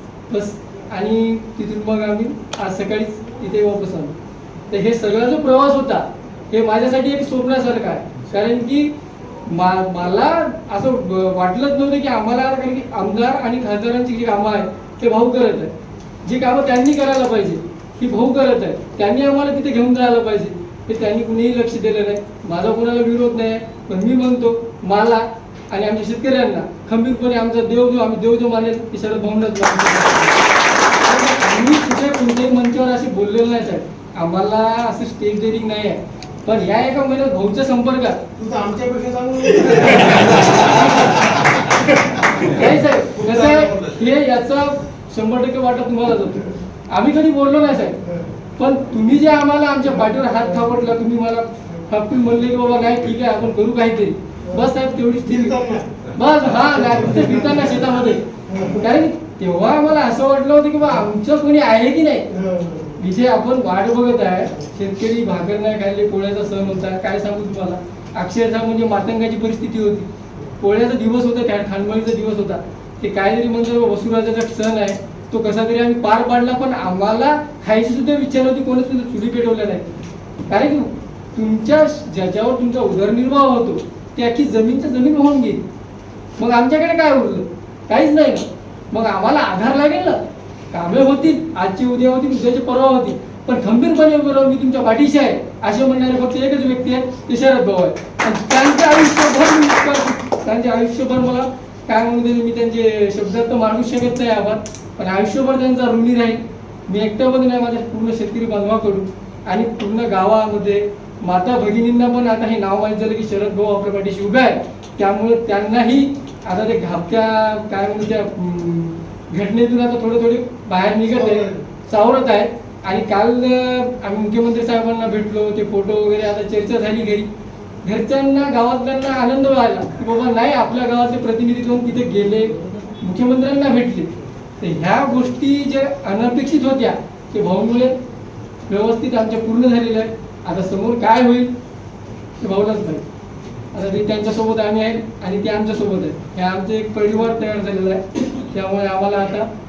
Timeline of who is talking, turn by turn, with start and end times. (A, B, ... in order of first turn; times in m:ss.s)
0:00.3-0:04.2 A
0:04.7-0:08.9 A
0:09.5-0:15.7 A
0:16.2-0:30.4 A
0:31.0-0:38.2 A
0:38.4-0:41.4 B
0:42.0-0:42.6 B
0:42.4-0:48.0 A
0:43.2-0:44.0 B
0:48.6-0:55.6 A
0:55.3-0:57.9 B
0:56.1-0:58.2 A
0:58.5-0:58.8 B
0:58.8-1:02.3 A
1:02.4-1:03.0 B
1:03.0-1:10.1 A
1:10.6-1:19.9 A
1:20.5-1:25.6 A
1:26.4-1:30.2 A
1:30.7-2:07.3 A
2:01.1-2:01.6 B
2:07.8-2:14.1 A
2:14.6-2:18.0 A
2:18.7-2:21.5 A
2:22.4-2:23.0 A
2:23.7-2:29.5 A